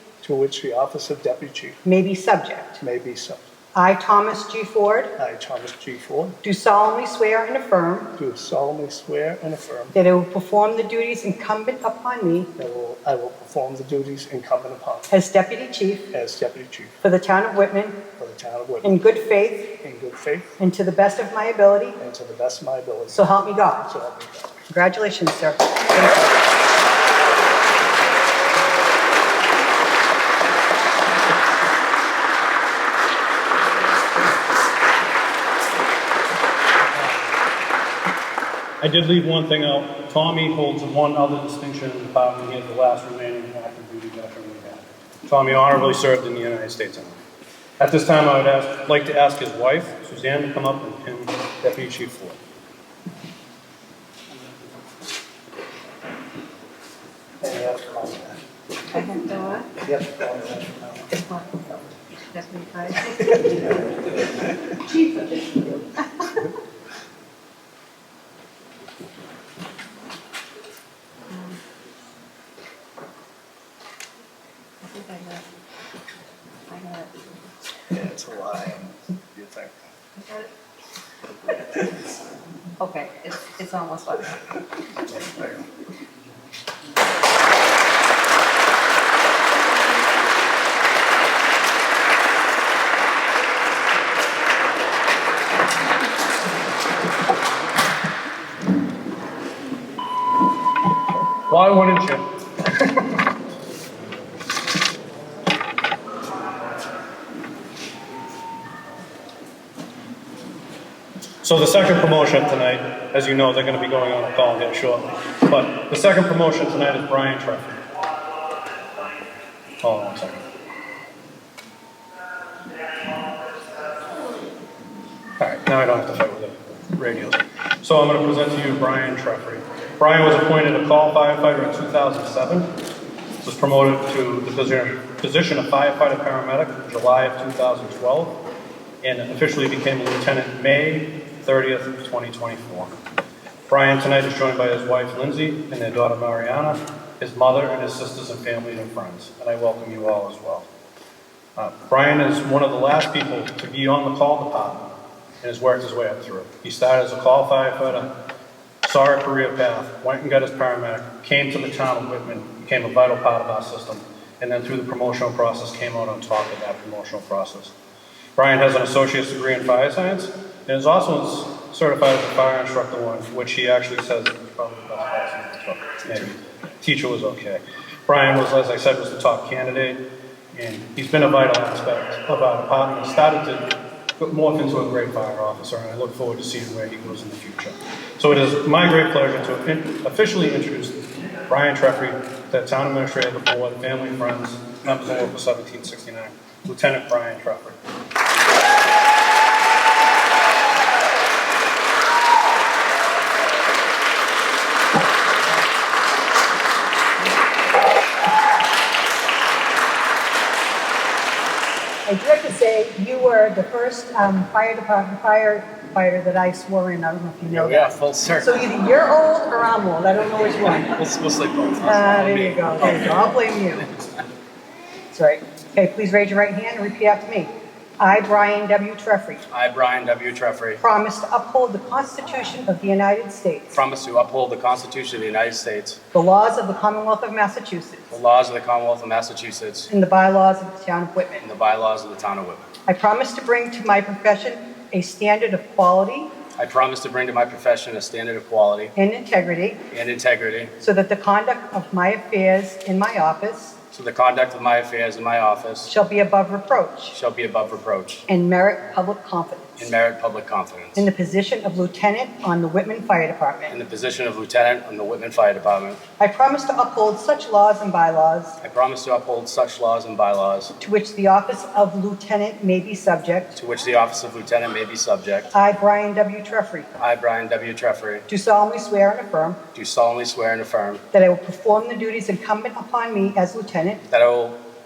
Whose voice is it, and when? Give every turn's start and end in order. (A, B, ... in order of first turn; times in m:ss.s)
0:00.2-0:01.8 A
0:01.8-0:02.8 B
0:02.8-0:03.4 A
0:03.7-0:05.1 B
0:05.2-0:06.4 A
0:06.4-0:08.1 B
0:08.2-0:10.0 A
0:09.9-0:12.5 B
0:12.6-0:15.1 A
0:15.1-0:16.0 B
0:16.1-0:17.0 A
0:17.0-0:18.0 B
0:18.2-0:19.0 A
0:18.8-0:19.7 B
0:19.8-0:20.5 A
0:20.6-0:22.0 B
0:22.0-0:24.6 A
0:23.1-0:23.8 B
0:24.7-0:26.3 B
0:36.8-0:37.4 C
0:38.8-0:47.2 C
0:47.8-0:52.4 C
0:57.4-0:58.4 A
0:58.9-0:59.7 D
0:59.8-1:01.1 A
1:01.2-1:03.5 D
1:11.3-1:11.6 D
1:14.8-1:15.4 D
1:16.7-1:17.3 D
1:17.9-1:19.8 A
1:20.2-1:20.5 D
1:22.8-1:24.3 D
1:25.2-1:25.6 A
1:41.5-1:43.2 C
1:51.4-1:57.8 C
1:59.8-2:00.4 C
2:05.4-2:12.7 C
2:13.4-2:18.4 C
2:19.0-2:22.9 C
2:23.7-2:30.7 C
2:31.6-2:38.1 C
2:38.8-2:47.7 C
2:48.4-3:17.8 C
3:32.0-3:41.0 B
3:37.4-3:38.7 E
3:40.6-3:44.2 E
3:41.8-3:43.9 B
3:45.1-3:49.4 B
3:49.5-3:50.8 E
3:50.8-3:53.8 B
3:53.7-3:56.0 E
3:56.1-3:58.1 B
3:58.1-3:59.9 E
3:59.9-4:01.5 B
4:01.4-4:02.7 E
4:02.8-4:06.3 B
4:06.6-4:08.9 E
4:09.0-4:09.8 B
4:09.9-4:10.7 E
4:10.8-4:13.7 B
4:13.9-4:15.9 E
4:15.9-4:17.1 B
4:17.1-4:18.2 E
4:18.3-4:19.8 B
4:19.8-4:21.1 E
4:21.0-4:23.8 B
4:23.7-4:26.0 E
4:26.2-4:28.5 B
4:28.6-4:30.7 E
4:30.8-4:33.5 B
4:33.6-4:35.5 E
4:35.5-4:36.9 B
4:37.0-4:38.2 E
4:38.3-4:39.6 B
4:39.7-4:41.0 E
4:41.1-4:44.0 B
4:44.1-4:44.6 E